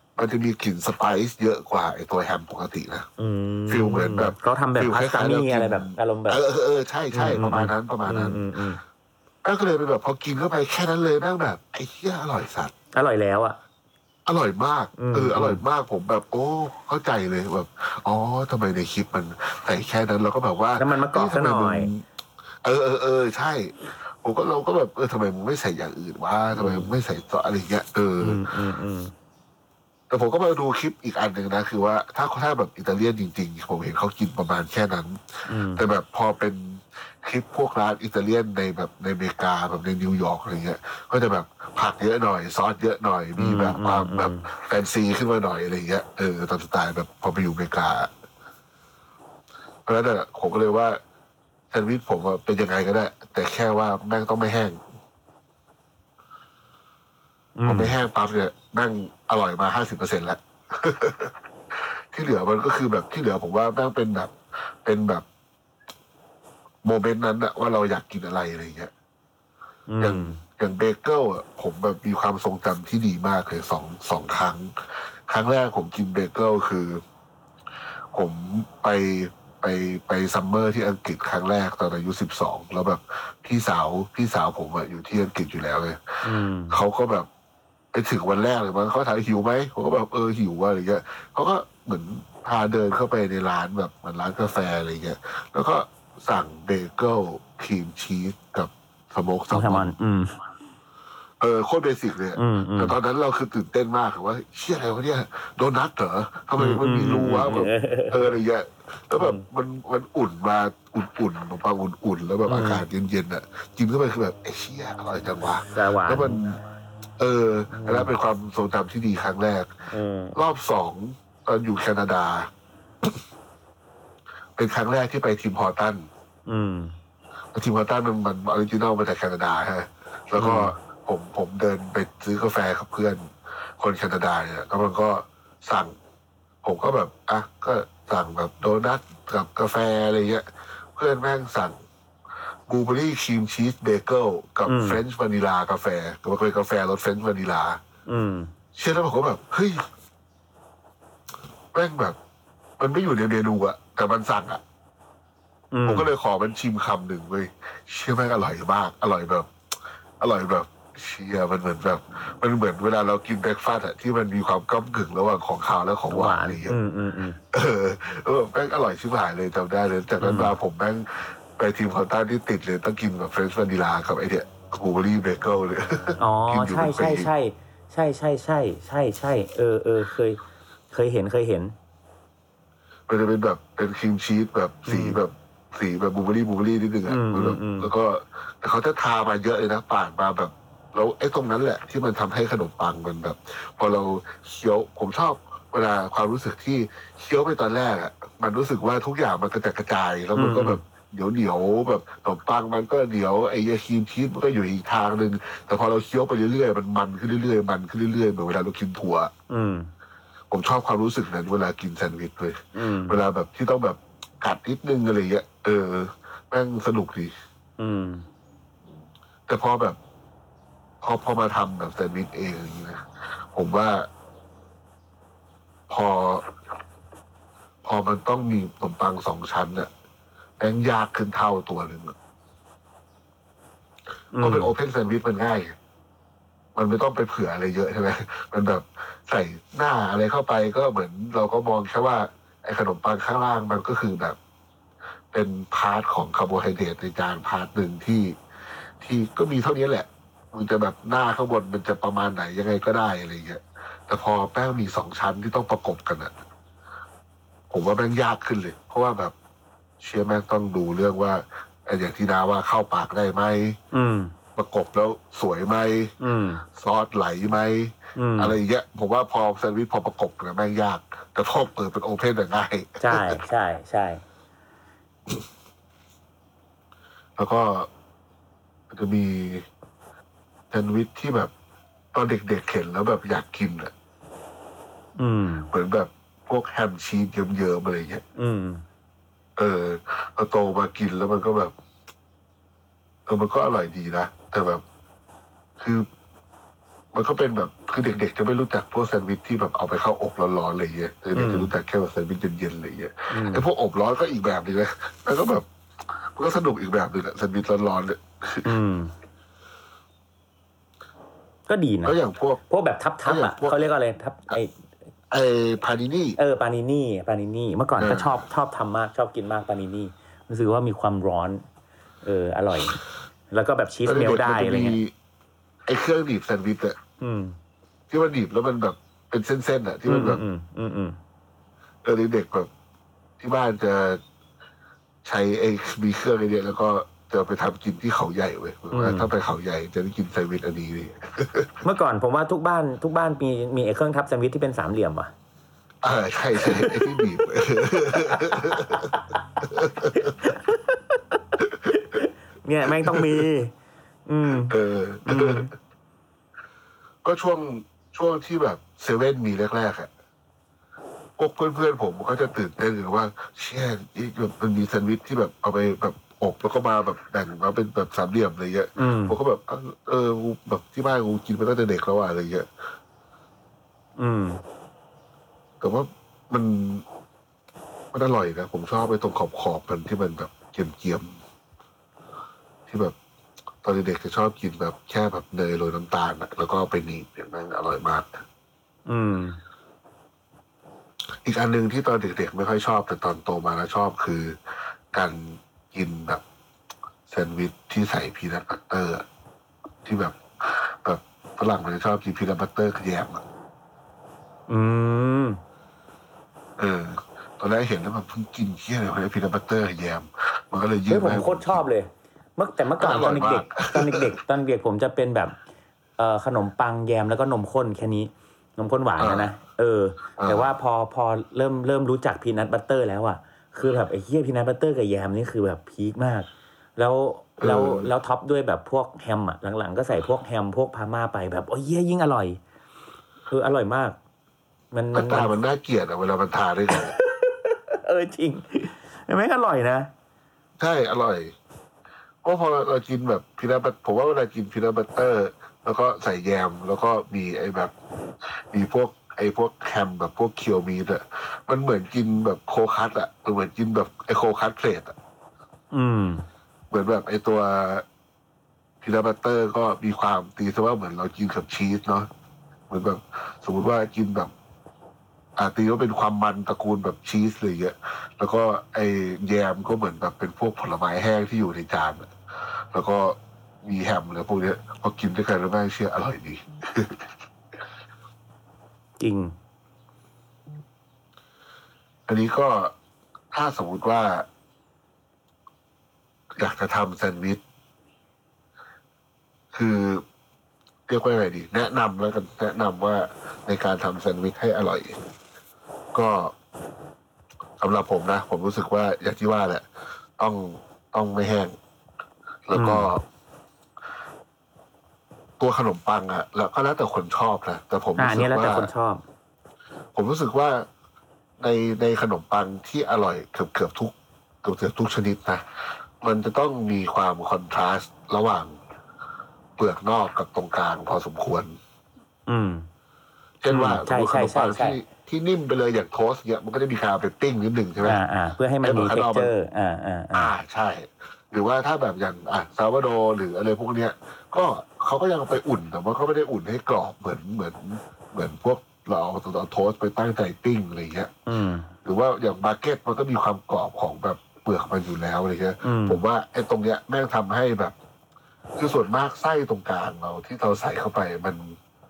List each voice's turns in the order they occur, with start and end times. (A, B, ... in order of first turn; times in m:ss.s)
0:00.2-0:03.1 A
0:03.2-0:06.4 B
0:03.7-0:08.4 A
0:07.1-0:08.8 B
0:09.4-0:12.7 A
0:12.9-0:13.6 B
0:14.3-0:22.0 A
0:15.0-0:15.6 B
0:20.8-0:21.9 B
0:22.6-0:28.4 A
0:26.5-0:26.9 B
0:28.2-0:29.1 B
0:30.1-0:48.1 A
0:35.5-0:35.8 B
0:43.4-0:44.5 B
0:49.9-0:51.0 A
0:51.7-0:54.8 A
0:57.6-0:58.0 B
0:57.7-1:01.3 A
1:02.1-1:05.2 A
1:06.8-1:08.9 A
1:09.9-1:10.4 B
1:10.0-1:14.7 A
1:15.3-1:17.0 A
1:18.1-1:27.3 A
1:26.2-1:26.8 B
1:27.9-1:39.9 A
1:39.5-1:40.4 B
1:41.4-1:56.6 A
1:42.4-1:43.0 B
1:46.6-1:48.3 B
1:49.2-1:49.4 B
1:52.5-1:52.8 B
1:55.7-1:56.4 B
1:57.2-1:59.7 A
1:57.7-1:58.1 B
1:59.9-2:00.4 B
2:00.4-2:02.5 A
2:04.6-2:06.1 A
2:06.5-2:06.9 B
2:07.5-2:16.0 A
2:10.4-2:10.7 B
2:16.6-2:20.4 A
2:21.0-2:21.8 A
2:22.7-2:27.8 A
2:24.7-2:25.0 B
2:28.1-2:28.5 B
2:28.8-2:29.8 A
2:31.7-2:32.2 A
2:32.8-2:34.6 A
2:35.7-2:36.1 B
2:35.9-2:39.5 A
2:40.2-2:46.8 A
2:46.1-2:47.4 B
2:47.5-2:57.3 A
2:50.2-2:50.5 B
2:56.2-3:01.8 B
3:03.1-3:29.3 A
3:04.9-3:05.2 B
3:07.1-3:07.9 B
3:20.4-3:20.8 B
3:29.5-3:29.9 B
3:30.5-3:37.3 A
3:32.7-3:33.2 B
3:37.8-3:38.3 B
3:39.5-3:40.0 A
3:41.0-3:44.1 A
3:45.9-3:46.4 A
3:47.8-3:49.9 A
3:50.6-3:52.2 A
3:54.3-3:54.7 B
3:54.4-3:55.8 A
3:56.8-4:04.4 A
4:05.3-4:08.4 A
4:09.0-4:16.3 A
4:17.7-4:19.3 A
4:20.0-4:23.8 A
4:23.9-4:24.3 B
4:24.6-4:26.1 A
4:26.2-4:26.6 B
4:26.7-4:33.4 A
4:28.2-4:28.6 B
4:33.0-4:34.2 B
4:37.4-4:37.9 A
4:38.9-4:39.7 A
4:40.7-4:41.5 A
4:42.1-4:43.9 A
4:45.2-4:45.7 B
4:45.7-4:48.2 A
4:48.4-4:48.8 B
4:49.6-4:51.7 A
4:53.3-4:54.8 A
4:55.8-4:56.1 A
4:57.1-5:05.6 A
5:01.4-5:01.7 B
5:03.3-5:03.6 B
5:06.3-5:08.7 A
5:08.6-5:09.1 B
5:11.7-5:12.2 B
5:12.0-5:12.6 A
5:12.7-5:14.7 B
5:13.2-5:13.8 A
5:15.3-5:16.4 A
5:16.4-5:21.6 B
5:18.0-5:18.4 A
5:22.2-5:23.0 B
5:23.5-5:25.0 B
5:24.1-5:25.1 A
5:25.9-5:27.0 A
5:27.2-5:27.6 B
5:28.1-5:30.4 A
5:30.1-5:31.2 B
5:32.0-5:32.7 A
5:33.4-5:34.2 A
5:35.2-5:41.8 A
5:38.9-5:39.3 B
5:41.8-5:45.3 B
5:46.0-5:50.3 A
5:46.6-5:47.2 B
5:48.2-5:49.2 B
5:50.1-5:53.7 B
5:52.9-5:53.5 A
5:54.3-5:55.7 B
5:54.6-5:55.7 A
5:57.2-6:00.1 A
6:01.4-6:12.7 A
6:09.0-6:09.4 B
6:14.2-6:14.6 B
6:15.8-6:17.0 A
6:18.1-6:21.4 A
6:22.9-6:23.2 A
6:23.8-6:28.4 A
6:29.1-6:29.6 B
6:31.4-6:34.6 A
6:35.1-6:36.4 A
6:37.3-6:39.2 A
6:40.0-6:43.4 A
6:44.7-6:45.6 B
6:46.8-6:51.8 A
6:51.1-6:55.6 B
6:53.0-6:54.3 A
6:56.2-7:12.6 B
6:59.2-6:59.5 A
7:00.4-7:00.8 A
7:07.6-7:08.1 A
7:13.5-7:14.2 B
7:14.9-7:15.6 B
7:15.1-7:17.1 A
7:16.9-7:20.1 B
7:20.8-7:21.5 A
7:22.4-7:27.9 A
7:28.7-7:35.2 A
7:35.9-7:36.5 B
7:36.9-7:38.0 A
7:39.0-7:42.3 A
7:42.9-7:44.5 A
7:45.6-7:52.3 A
7:52.9-7:57.3 A
7:59.2-7:59.5 B
8:02.3-8:02.9 A
8:03.5-8:04.5 A
8:06.6-8:07.6 A
8:09.7-8:10.2 A
8:11.1-8:15.2 A
8:16.1-8:16.5 A
8:17.8-8:19.8 A
8:20.4-8:21.8 A
8:22.7-8:23.2 A
8:22.8-8:23.1 B
8:25.6-8:28.9 A
8:28.2-8:29.2 B
8:30.2-8:30.9 A
8:31.6-8:35.6 A
8:36.2-8:38.8 A
8:39.8-8:41.8 A
8:42.5-8:42.9 B
8:43.6-8:48.2 A
8:43.7-8:45.0 B
8:48.0-8:50.5 B
8:48.8-8:49.5 A
8:50.3-9:01.3 A
9:01.5-9:01.9 B
9:02.0-9:08.0 A
9:05.8-9:06.2 B
9:08.8-9:11.8 A